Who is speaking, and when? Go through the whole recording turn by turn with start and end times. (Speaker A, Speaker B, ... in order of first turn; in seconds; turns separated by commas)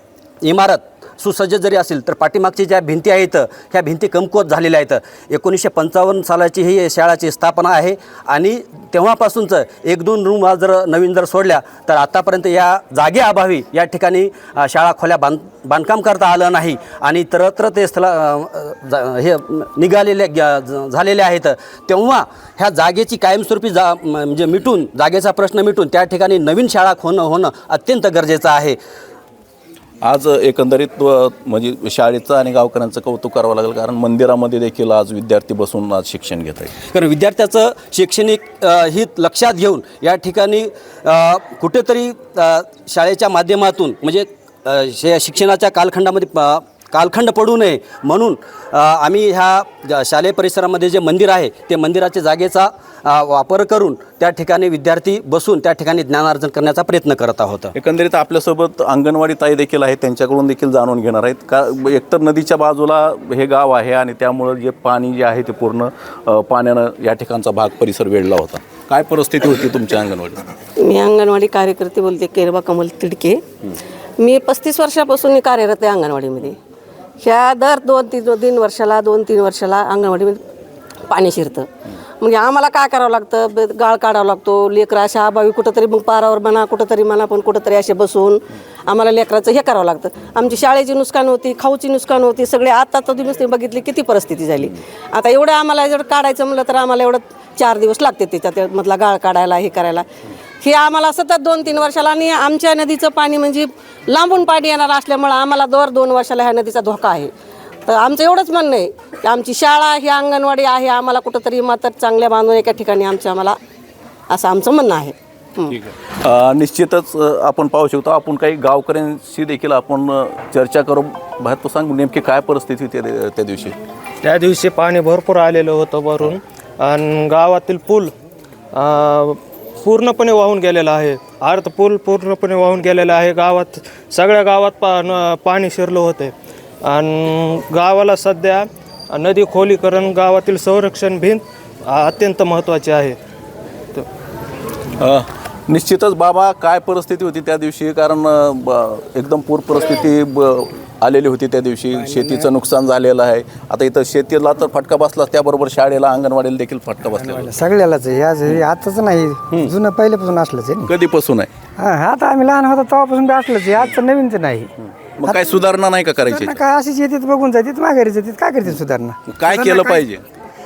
Speaker A: 0.4-28.8, Speaker B: 30.0-36.7, Speaker A: 36.8-57.7, Speaker B: 57.8-70.5, Speaker C: 70.8-73.4, Speaker C: 74.2-76.6, Speaker C: 77.2-80.4, Speaker C: 81.1-100.0, Speaker C: 100.6-107.3, Speaker C: 107.8-113.6, Speaker C: 114.3-115.7, Speaker B: 115.7-123.8, Speaker D: 124.2-128.1, Speaker D: 128.7-136.3, Speaker D: 136.8-143.2, Speaker B: 145.0-157.6, Speaker E: 157.2-160.9, Speaker B: 160.8-161.5, Speaker E: 161.8-164.7, Speaker B: 165.2-166.6, Speaker E: 165.2-165.6, Speaker E: 166.3-170.0, Speaker B: 169.3-170.2